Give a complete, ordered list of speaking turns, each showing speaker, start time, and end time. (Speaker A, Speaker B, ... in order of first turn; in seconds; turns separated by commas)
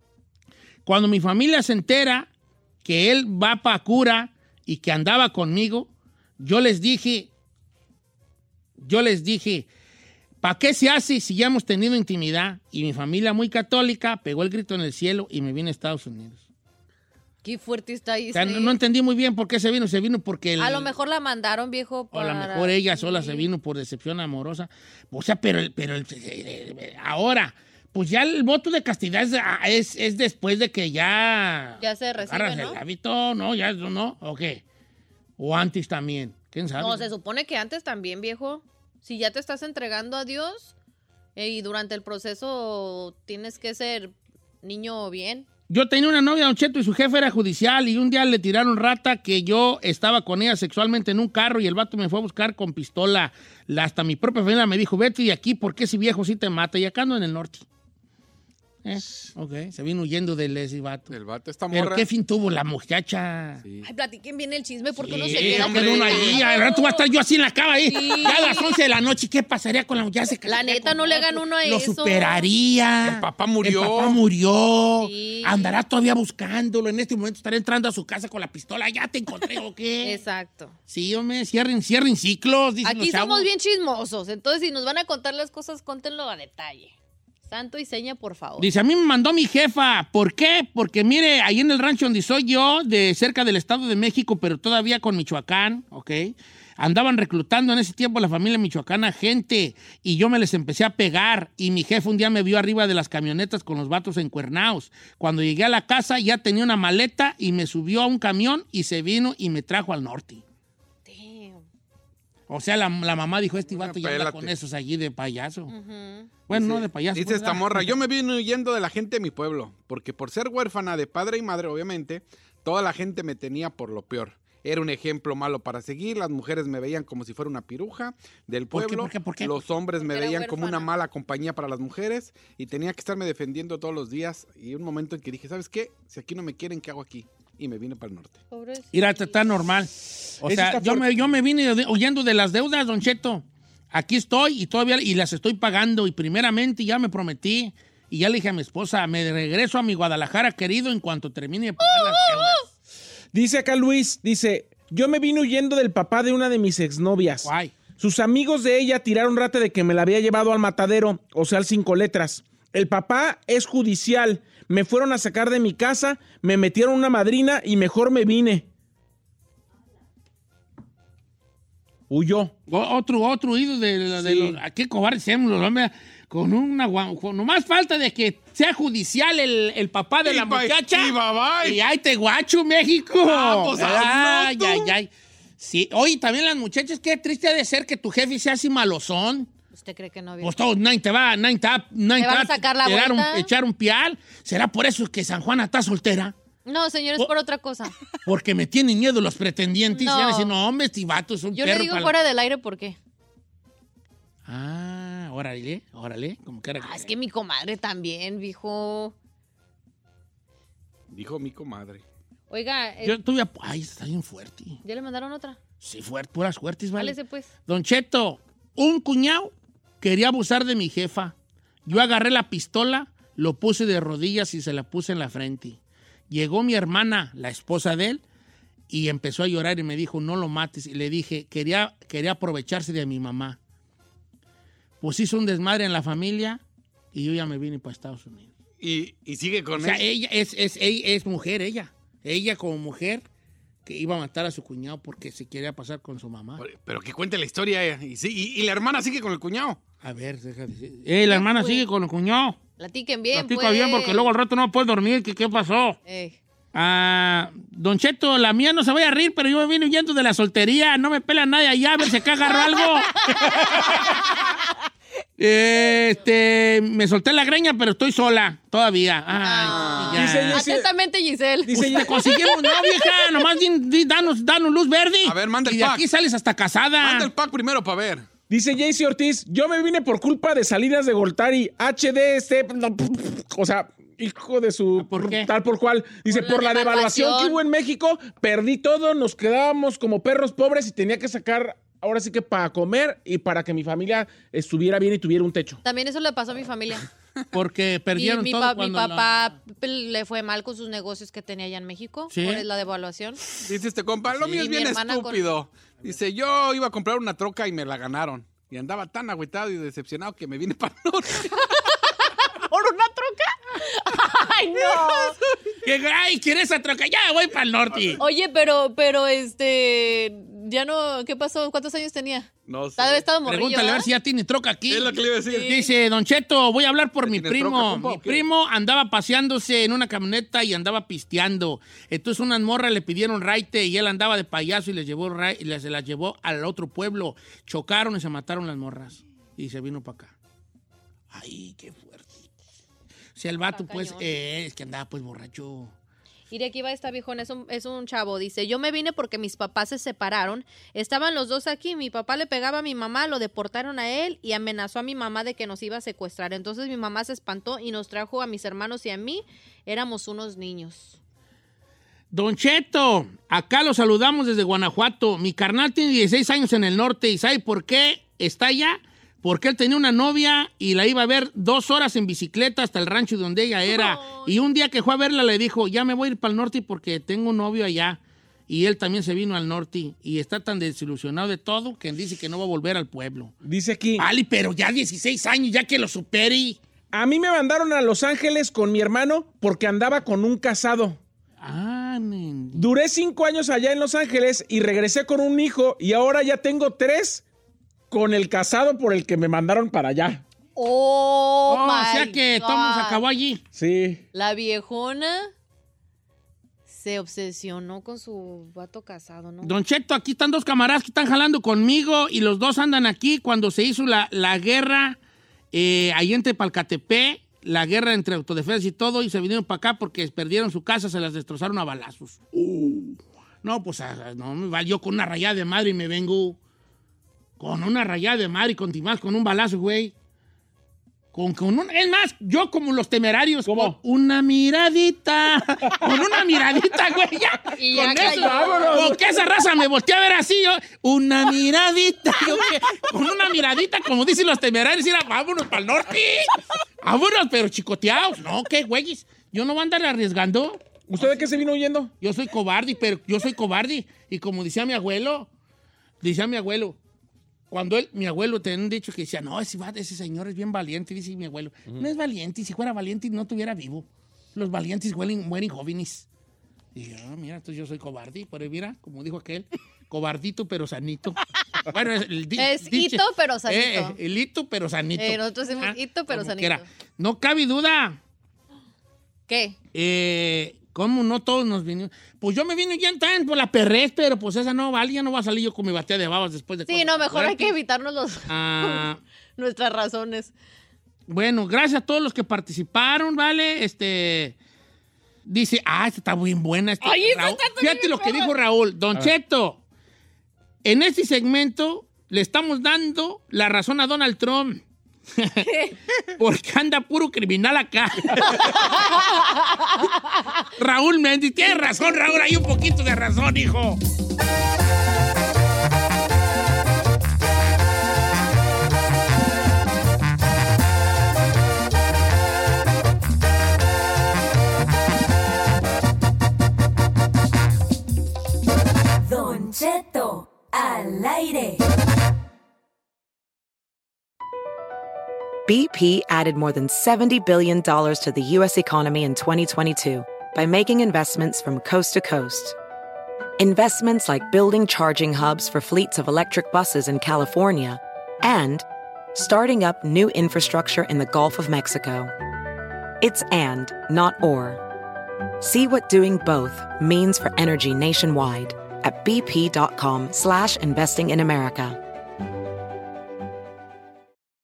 Speaker A: 0.9-2.3, Speaker A: 2.8-7.3, Speaker A: 8.8-9.7, Speaker A: 10.4-16.4, Speaker B: 17.4-18.8, Speaker A: 18.3-20.9, Speaker B: 20.6-23.5, Speaker A: 22.1-34.6, Speaker B: 31.8-32.8, Speaker A: 35.4-37.1, Speaker B: 36.8-40.7, Speaker B: 41.4-45.5, Speaker A: 45.7-57.7, Speaker A: 58.8-61.1, Speaker C: 61.1-62.1, Speaker A: 61.7-63.6, Speaker C: 63.6-63.9, Speaker B: 63.8-67.0, Speaker A: 65.0-80.2, Speaker C: 65.3-66.4, Speaker B: 67.8-68.8, Speaker B: 70.5-72.5, Speaker C: 73.0-74.2, Speaker B: 75.0-75.8, Speaker B: 80.0-80.8, Speaker A: 80.9-83.5, Speaker B: 82.8-86.9, Speaker B: 87.5-88.7, Speaker A: 88.6-110.4, Speaker B: 111.1-111.6, Speaker A: 112.5-115.7, Speaker C: 113.7-114.5, Speaker B: 115.7-116.3, Speaker A: 116.5-118.0, Speaker C: 116.5-138.4, Speaker A: 128.7-129.6, Speaker B: 130.0-130.9, Speaker B: 138.5-139.4, Speaker A: 138.9-152.7, Speaker D: 140.4-141.2, Speaker B: 151.9-152.6, Speaker D: 153.3-168.7, Speaker A: 157.4-157.7, Speaker D: 172.1-172.5, Speaker A: 172.7-189.5, Speaker D: 174.2-174.6, Speaker C: 180.2-181.8, Speaker C: 183.2-185.0, Speaker B: 189.7-190.6, Speaker A: 190.4-196.3, Speaker B: 192.2-193.5, Speaker B: 196.7-198.0, Speaker A: 198.2-202.1, Speaker B: 199.9-200.5, Speaker B: 201.6-203.0, Speaker A: 204.5-207.1, Speaker B: 206.8-209.1, Speaker C: 211.1-212.0, Speaker B: 212.5-213.2, Speaker A: 213.0-214.8, Speaker B: 214.8-215.6, Speaker A: 215.8-217.2, Speaker B: 217.0-217.5, Speaker A: 217.7-221.3, Speaker A: 221.9-225.8, Speaker A: 226.3-228.2, Speaker A: 228.9-233.6, Speaker A: 235.0-236.6, Speaker A: 237.1-238.5, Speaker C: 238.8-240.1, Speaker A: 239.8-243.3, Speaker A: 243.8-246.6, Speaker C: 246.6-249.8, Speaker A: 250.0-252.6, Speaker B: 251.3-251.8, Speaker B: 252.8-254.3, Speaker A: 253.3-256.0, Speaker B: 256.1-256.4, Speaker A: 256.7-264.2, Speaker B: 262.4-264.7, Speaker A: 265.4-270.6, Speaker B: 269.4-273.4, Speaker D: 270.1-270.9, Speaker D: 271.6-272.2, Speaker A: 271.7-277.3, Speaker C: 275.2-276.1, Speaker C: 277.0-278.3, Speaker D: 278.5-295.8, Speaker A: 285.0-285.5, Speaker B: 286.3-287.6, Speaker B: 295.8-297.1, Speaker A: 297.5-299.3, Speaker B: 298.2-303.5, Speaker A: 302.3-302.6, Speaker C: 303.6-311.8, Speaker A: 304.3-304.6, Speaker B: 304.4-305.5, Speaker B: 312.0-315.4, Speaker A: 315.8-318.2, Speaker B: 318.2-324.1, Speaker C: 322.7-323.2, Speaker A: 323.4-340.3, Speaker C: 324.9-325.8, Speaker B: 325.5-325.8, Speaker C: 327.3-328.4, Speaker A: 341.3-342.5, Speaker A: 343.4-345.9, Speaker B: 343.7-344.4, Speaker B: 346.5-361.2, Speaker A: 362.3-383.5, Speaker B: 373.9-374.5, Speaker D: 383.6-384.3, Speaker A: 384.2-386.8, Speaker D: 387.1-391.2, Speaker A: 391.6-392.9, Speaker D: 392.7-397.4, Speaker D: 398.1-400.4, Speaker B: 400.8-403.2, Speaker A: 401.7-403.6, Speaker D: 403.7-404.2, Speaker B: 404.3-405.5, Speaker B: 406.9-409.8, Speaker A: 409.6-415.2, Speaker A: 415.7-426.6, Speaker A: 427.6-430.1, Speaker A: 431.3-450.8, Speaker D: 433.7-434.0, Speaker D: 435.9-436.2, Speaker B: 437.8-439.1, Speaker D: 437.9-439.2, Speaker D: 451.1-452.1, Speaker A: 452.2-455.5, Speaker A: 456.2-457.0, Speaker A: 457.7-466.3, Speaker A: 466.9-478.2, Speaker B: 472.6-474.2, Speaker B: 475.2-476.8, Speaker B: 479.5-479.8, Speaker A: 479.9-487.7, Speaker B: 486.9-490.5, Speaker A: 488.5-489.2, Speaker A: 491.3-494.6, Speaker A: 495.5-499.8, Speaker B: 497.0-498.5, Speaker A: 500.8-504.8, Speaker A: 505.4-505.7, Speaker B: 505.6-506.0, Speaker A: 506.4-509.0, Speaker B: 508.6-510.1, Speaker A: 510.8-514.0, Speaker E: 529.2-531.9, Speaker F: 535.7-542.8, Speaker F: 543.6-552.3, Speaker F: 553.2-554.8, Speaker F: 555.6-562.0